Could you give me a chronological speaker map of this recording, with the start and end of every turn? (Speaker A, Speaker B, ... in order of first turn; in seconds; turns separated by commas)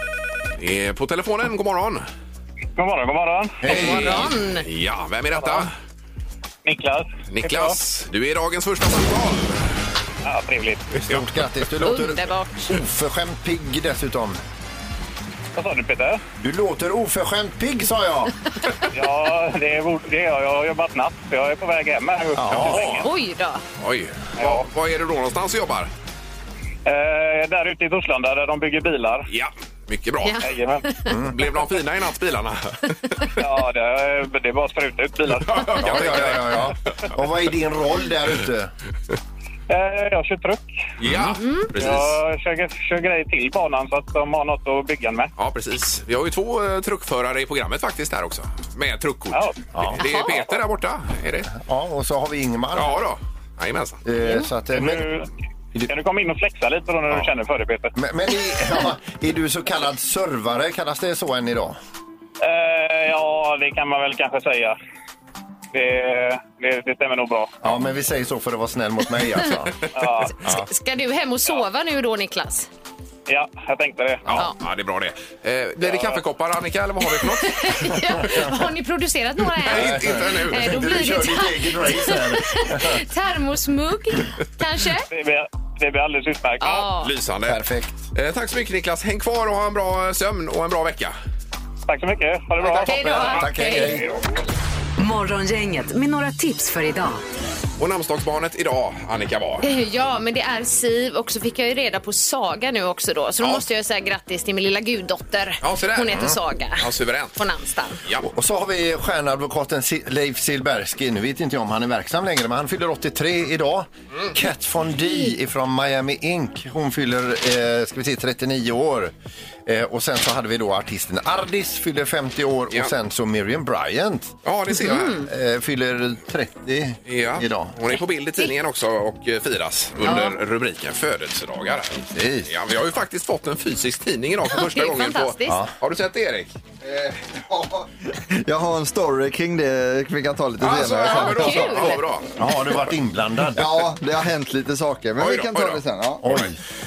Speaker A: 0.6-2.0, Speaker B: 2.8-3.6, Speaker C: 3.6-4.3, Speaker D: 3.6-4.7, Speaker A: 3.7-5.7, Speaker B: 5.4-5.6, Speaker B: 6.6-7.8, Speaker A: 7.3-9.7, Speaker B: 10.2-10.9, Speaker C: 10.9-14.4, Speaker D: 11.8-12.8, Speaker B: 15.5-16.2, Speaker C: 16.4-18.3, Speaker B: 18.9-23.1, Speaker C: 22.3-22.9, Speaker A: 22.5-23.1, Speaker D: 23.0-23.6, Speaker A: 23.8-25.9, Speaker B: 24.4-24.7, Speaker B: 26.9-29.3, Speaker A: 29.3-30.4, Speaker D: 30.2-31.1, Speaker B: 30.4-30.9, Speaker C: 31.1-31.4, Speaker A: 31.1-33.1, Speaker B: 33.4-35.9, Speaker A: 35.4-36.7, Speaker C: 35.8-38.7, Speaker B: 39.7-40.9, Speaker A: 41.0-42.1, Speaker C: 41.1-41.3, Speaker D: 41.4-41.7, Speaker B: 41.7-45.3, Speaker A: 45.4-51.6, Speaker B: 49.3-49.6, Speaker C: 49.7-50.0, Speaker D: 50.0-50.4, Speaker C: 51.5-53.0, Speaker A: 52.7-54.0, Speaker C: 54.0-55.1, Speaker D: 54.2-54.5, Speaker B: 54.7-55.3, Speaker B: 55.9-57.9, Speaker C: 57.9-61.8, Speaker B: 62.4-64.8, Speaker B: 65.7-67.5, Speaker C: 67.6-69.7, Speaker B: 69.9-70.4, Speaker D: 70.3-72.7, Speaker B: 73.3-74.3, Speaker A: 74.2-78.0, Speaker B: 75.8-76.2, Speaker D: 77.0-85.0, Speaker C: 78.1-78.5, Speaker A: 79.6-80.9, Speaker C: 79.6-83.0, Speaker B: 85.1-86.9, Speaker D: 86.6-87.1, Speaker A: 87.0-91.1, Speaker C: 87.5-88.0, Speaker B: 91.8-94.0, Speaker C: 92.7-94.1, Speaker D: 92.8-94.0, Speaker E: 95.0-97.2, Speaker A: 97.8-99.6, Speaker D: 99.6-108.0, Speaker A: 105.6-107.4, Speaker A: 108.0-108.3, Speaker C: 108.2-119.1, Speaker C: 119.7-124.3, Speaker A: 124.4-125.2, Speaker D: 124.7-125.3, Speaker C: 125.2-127.7, Speaker A: 127.1-136.5, Speaker D: 130.1-130.3, Speaker C: 132.0-132.5, Speaker D: 134.5-135.6, Speaker C: 135.5-135.7, Speaker F: 136.8-142.0, Speaker A: 140.6-142.3, Speaker D: 141.0-142.0, Speaker C: 142.4-143.9, Speaker F: 143.5-146.4, Speaker A: 145.2-146.5, Speaker C: 146.2-146.6